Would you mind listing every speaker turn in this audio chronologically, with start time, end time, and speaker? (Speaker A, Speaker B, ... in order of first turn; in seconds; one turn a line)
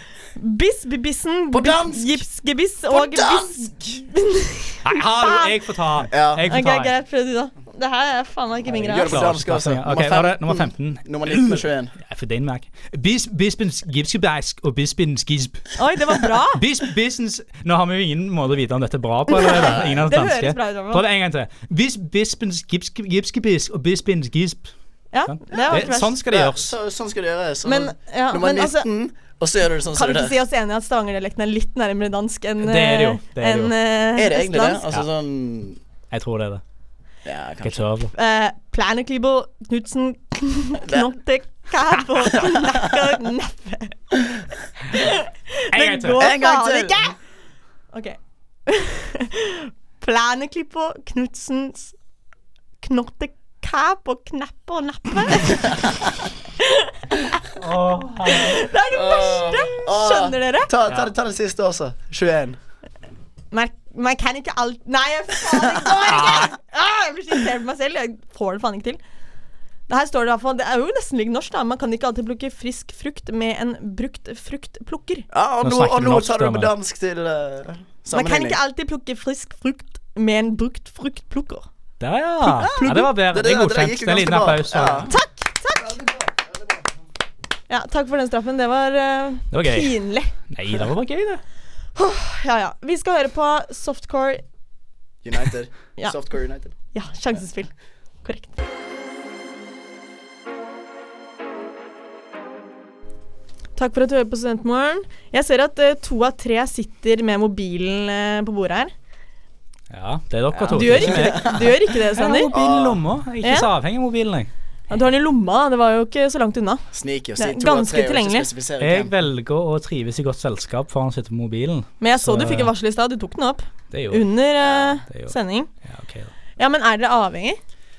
Speaker A: 0.3-5.5
Speaker B: 1.5-2.2
Speaker B: 2.9-4.0
Speaker C: 4.8-6.9
Speaker B: 6.1-6.4
Speaker A: 6.5-9.2
Speaker B: 8.7-11.9
Speaker C: 9.1-15.8
Speaker A: 15.8-16.6
Speaker C: 16.5-24.7
Speaker A: 19.3-21.0
Speaker B: 19.6-19.9
Speaker A: 25.1-26.1
Speaker C: 25.3-26.7
Speaker B: 25.5-30.4
Speaker A: 27.6-28.9
Speaker A: 29.9-34.8
Speaker C: 32.6-33.7
Speaker B: 34.1-35.8
Speaker C: 36.1-36.6
Speaker B: 37.2-37.8
Speaker C: 37.6-38.1
Speaker A: 38.1-44.0
Speaker A: 44.9-47.1
Speaker C: 45.7-46.2
Speaker B: 46.2-47.1
Speaker A: 47.9-51.9
Speaker A: 52.8-55.8
Speaker A: 56.6-57.4
Speaker C: 57.5-58.6
Speaker A: 58.2-60.7
Speaker B: 58.9-62.6
Speaker A: 63.5-69.0
Speaker B: 65.6-66.3
Speaker C: 66.1-66.5
Speaker A: 69.9-75.2
Speaker B: 75.3-78.6
Speaker C: 75.6-76.7
Speaker A: 78.1-81.7
Speaker C: 82.0-85.1
Speaker A: 82.4-83.1
Speaker B: 82.8-85.1
Speaker A: 85.1-86.0
Speaker A: 87.7-90.3
Speaker C: 89.5-91.4
Speaker A: 92.0-94.4
Speaker B: 95.2-96.7
Speaker A: 96.9-97.7
Speaker A: 98.2-98.6
Speaker A: 103.8-108.9
Speaker C: 109.9-114.5
Speaker B: 110.5-111.8
Speaker A: 110.7-112.5
Speaker B: 112.5-113.0
Speaker A: 113.4-113.7
Speaker A: 114.9-116.8
Speaker B: 116.9-119.1
Speaker A: 117.4-118.5
Speaker C: 118.8-122.7
Speaker A: 122.0-125.7
Speaker C: 123.9-124.3
Speaker B: 124.6-125.0
Speaker C: 125.1-126.3
Speaker A: 126.6-127.6